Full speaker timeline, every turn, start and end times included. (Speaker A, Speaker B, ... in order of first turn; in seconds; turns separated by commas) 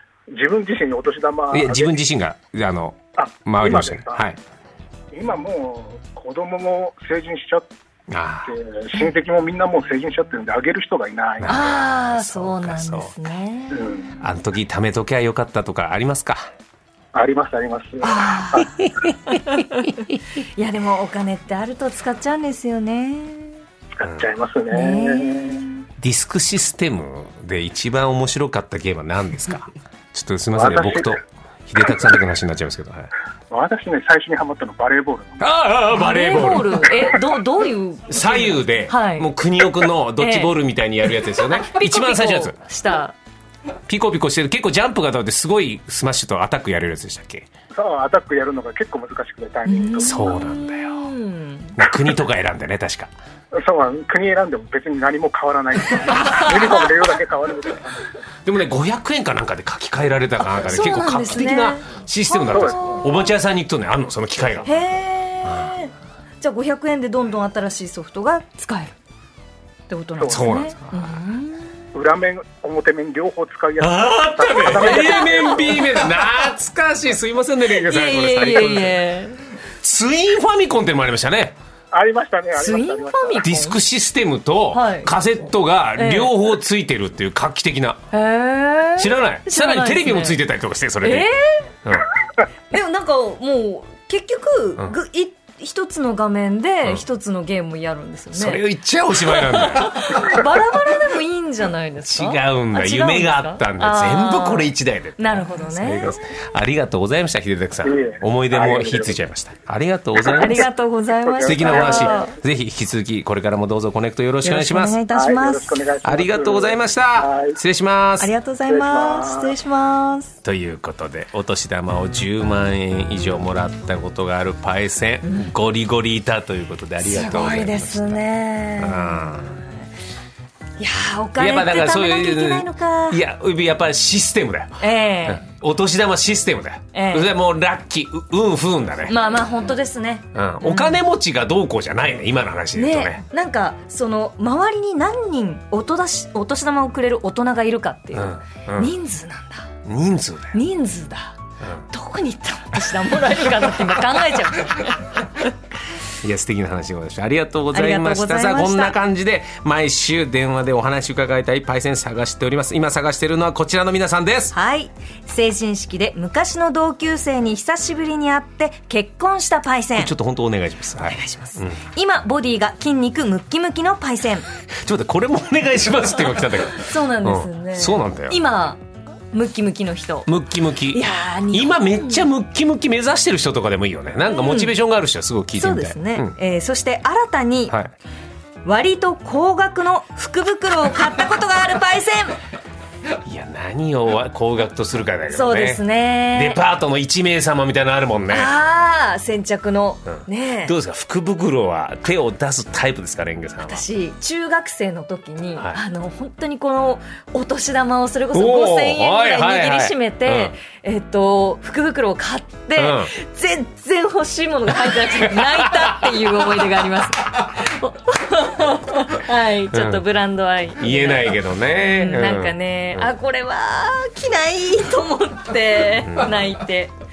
Speaker A: 0.3-1.9, Speaker B: 1.5-4.4, Speaker A: 3.2-4.2, Speaker A: 5.1-7.7, Speaker B: 8.1-8.6, Speaker A: 8.5-11.6, Speaker B: 11.4-13.1, Speaker C: 11.5-13.9, Speaker A: 13.7-14.2, Speaker B: 14.2-16.5, Speaker A: 17.1-18.8, Speaker C: 18.0-19.7, Speaker C: 20.6-23.6, Speaker A: 24.0-25.6, Speaker C: 24.7-25.9, Speaker B: 26.0-33.1, Speaker A: 30.6-31.2, Speaker A: 33.5-35.5, Speaker B: 35.4-37.1, Speaker C: 35.9-39.3, Speaker B: 38.1-42.6, Speaker C: 40.2-40.5, Speaker C: 41.4-43.1, Speaker B: 43.9-47.5, Speaker A: 47.7-50.3, Speaker C: 49.7-51.8, Speaker B: 50.0-51.1, Speaker B: 51.8-53.1, Speaker A: 53.5-58.1, Speaker B: 58.5-64.7, Speaker C: 60.4-63.1, Speaker A: 62.4-62.9, Speaker C: 64.7-69.0, Speaker C: 69.9-71.8, Speaker A: 70.2-70.5, Speaker B: 70.3-71.2, Speaker A: 71.9-75.9, Speaker B: 73.8-79.0, Speaker C: 74.8-75.6, Speaker C: 77.8-79.5, Speaker B: 79.8-81.6, Speaker A: 81.9-83.5, Speaker C: 82.6-83.8, Speaker B: 83.4-88.0, Speaker C: 84.7-85.1, Speaker C: 86.0-86.3, Speaker C: 88.1-90.4, Speaker B: 89.0-91.3, Speaker C: 91.0-91.7, Speaker C: 92.7-98.6, Speaker B: 98.3-100.5, Speaker C: 99.2-106.1, Speaker B: 102.0-110.7, Speaker A: 107.8-109.2, Speaker C: 110.3-112.3, Speaker A: 111.2-112.3, Speaker B: 111.5-115.0, Speaker C: 114.4-115.8, Speaker A: 115.1-117.6, Speaker B: 116.0-118.3, Speaker C: 118.2-120.4, Speaker A: 118.7-119.5, Speaker B: 120.4-128.2, Speaker C: 125.2-125.5, Speaker C: 127.0-129.6, Speaker B: 128.8-129.6, Speaker C: 130.8-133.2, Speaker B: 131.4-139.2, Speaker C: 134.8-135.5, Speaker C: 136.9-137.3, Speaker C: 139.1-141.0, Speaker B: 140.3-143.2, Speaker C: 142.7-149.7, Speaker B: 148.1-148.9, Speaker B: 149.8-150.6, Speaker C: 150.5-151.4, Speaker C: 151.9-155.5, Speaker B: 156.2-164.6, Speaker C: 157.7-159.0, Speaker C: 164.5-170.1, Speaker B: 170.0-171.8, Speaker C: 171.0-174.5, Speaker B: 174.8-178.4, Speaker C: 176.7-180.3, Speaker B: 180.3-186.4, Speaker C: 180.9-182.2, Speaker C: 184.3-184.8, Speaker C: 185.6-187.8, Speaker C: 188.7-192.4, Speaker B: 193.2-198.5, Speaker C: 195.3-196.6, Speaker C: 198.3-200.8, Speaker B: 200.1-203.8, Speaker C: 203.6-226.9, Speaker B: 208.3-210.5, Speaker B: 212.8-213.1, Speaker B: 215.2-216.3, Speaker B: 219.7-220.0, Speaker B: 220.8-223.1, Speaker B: 226.0-226.3